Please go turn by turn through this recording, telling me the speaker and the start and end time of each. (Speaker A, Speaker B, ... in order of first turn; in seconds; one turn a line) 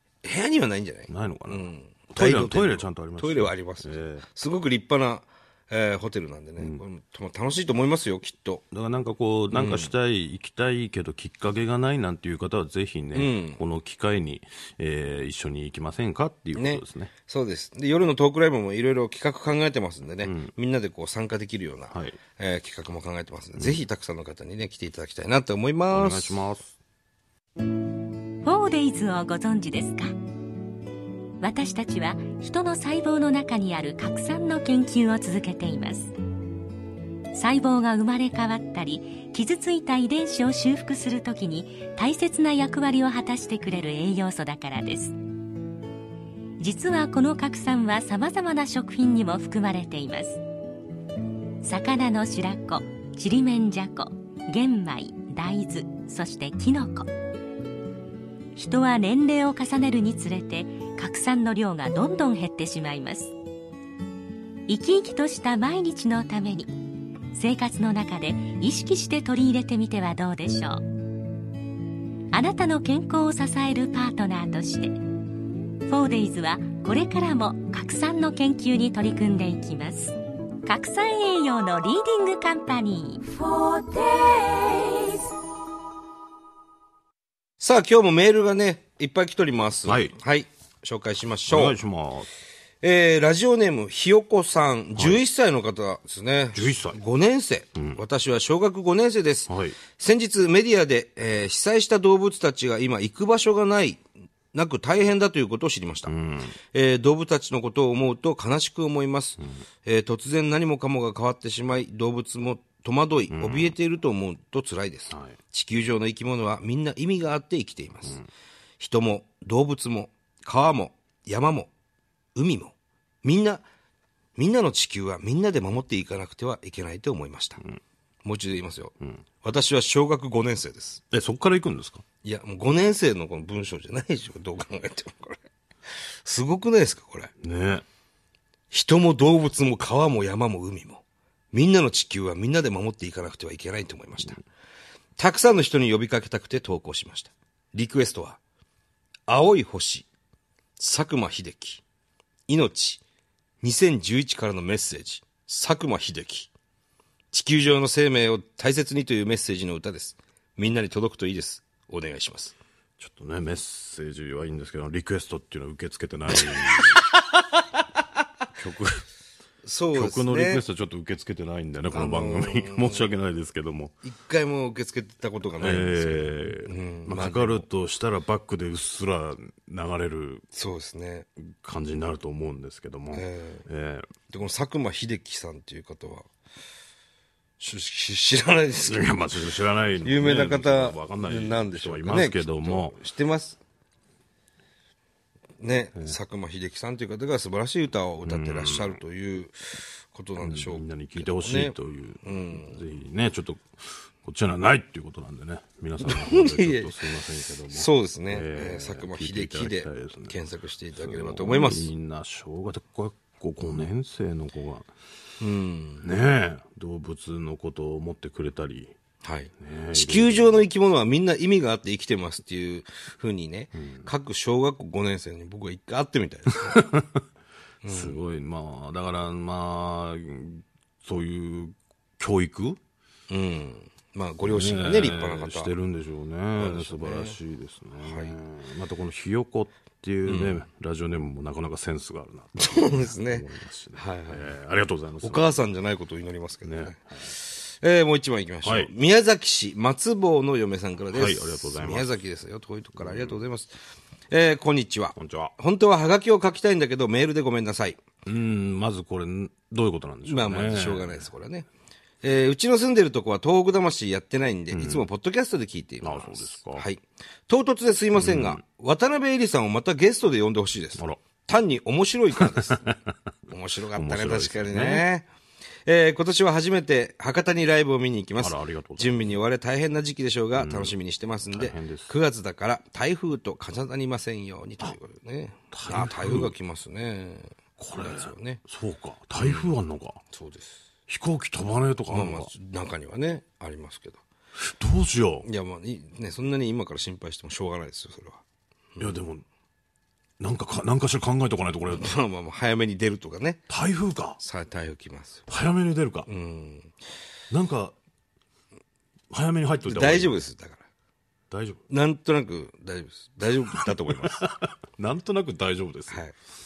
Speaker A: 0.2-8.6
Speaker B: 1.1-4.2
Speaker B: 6.6-6.8
Speaker B: 8.7-17.1
Speaker A: 9.5-9.9
Speaker A: 13.1-13.6
Speaker A: 16.6-26.4
Speaker B: 20.2-20.5
Speaker B: 21.9-22.2
Speaker B: 23.6-23.8
Speaker B: 25.9-26.8
Speaker C: 28.4-30.1
Speaker C: 31.4-36.1
Speaker C: 37.3-45.2
Speaker C: 46.6-50.4
Speaker C: 51.6-57.1
Speaker C: 58.6-63.3
Speaker C: 64.7-66.7
Speaker C: 67.3-70.8
Speaker C: 72.3-75.0
Speaker C: 75.9-85.2
Speaker A: 87.6-91.8
Speaker B: 89.9-90.2
Speaker B: 91.5-92.3
Speaker A: 92.8-106.1
Speaker B: 95.0-95.2
Speaker B: 96.5-97.0
Speaker B: 97.8-98.0
Speaker B: 99.5-99.8
Speaker B: 106.1-106.6
Speaker A: 106.7-118.2
Speaker B: 113.3-113.8
Speaker B: 115.1-115.3
Speaker A: 118.8-121.7
Speaker A: 122.3-123.6
Speaker A: 124.4-127.6
Speaker A: 128.2-131.0
Speaker B: 131.1-132.0
Speaker A: 132.2-135.4
Speaker A: 136.2-137.3
Speaker B: 137.4-137.8
Speaker A: 138.7-144.4
Speaker A: 145.2-148.4
Speaker A: 149.3-150.1
Speaker A: 150.8-151.8
Speaker A: 152.5-153.0
Speaker A: 153.6-156.5
Speaker A: 157.3-162.6
Speaker B: 163.0-167.0
Speaker B: 168.6-169.1
Speaker A: 169.6-170.6
Speaker B: 169.9-173.9
Speaker A: 171.9-173.1
Speaker A: 174.0-177.7
Speaker B: 175.6-180.4
Speaker A: 180.5-181.3
Speaker B: 181.4-184.1
Speaker A: 183.1-183.7
Speaker A: 184.3-186.3
Speaker A: 187.6-189.1
Speaker B: 188.8-193.0
Speaker A: 190.0-193.6
Speaker A: 195.6-202.8
Speaker B: 198.2-199.0
Speaker B: 200.4-210.4
Speaker A: 206.0-207.0
Speaker A: 207.7-211.9
Speaker B: 211.0-214.9
Speaker A: 215.4-216.1
Speaker B: 216.0-218.9
Speaker A: 219.2-226.8
Speaker B: 219.6-220.7
Speaker B: 223.7-224.1
Speaker B: 226.5-227.2
Speaker A: 227.8-228.2
Speaker B: 227.9-232.8
Speaker A: 233.3-235.7
Speaker B: 234.4-245.7
Speaker A: 236.6-237.4
Speaker A: 238.0-238.3
Speaker A: 240.2-240.7
Speaker A: 242.6-243.4
Speaker A: 244.0-244.5
Speaker A: 245.2-253.7
Speaker B: 246.6-247.3
Speaker B: 248.6-248.9
Speaker B: 251.1-252.2
Speaker B: 253.0-253.4
Speaker A: 254.3-258.0
Speaker B: 255.2-255.5
Speaker B: 258.3-261.3
Speaker A: 260.2-261.7
Speaker A: 262.2-272.9
Speaker B: 264.7-265.1
Speaker B: 266.0-266.9
Speaker B: 268.2-268.6
Speaker B: 272.3-273.0
Speaker A: 273.5-275.3
Speaker B: 273.9-275.1
Speaker A: 275.9-288.6
Speaker B: 278.4-279.4
Speaker B: 280.6-281.0
Speaker B: 281.5-282.2
Speaker B: 285.7-286.5
Speaker B: 287.8-290.2
Speaker A: 289.4-289.7
Speaker A: 290.3-290.8
Speaker B: 291.1-292.5
Speaker A: 292.1-294.2
Speaker B: 294.6-295.5
Speaker A: 295.4-298.4
Speaker B: 299.0-299.4
Speaker B: 300.4-302.1
Speaker A: 301.9-303.6
Speaker B: 303.7-304.4
Speaker A: 304.4-305.4
Speaker B: 305.5-306.3
Speaker A: 306.3-306.9
Speaker B: 307.5-307.9
Speaker B: 309.3-310.4
Speaker A: 309.9-310.8
Speaker B: 311.5-311.8
Speaker A: 311.9-314.4
Speaker B: 313.9-316.2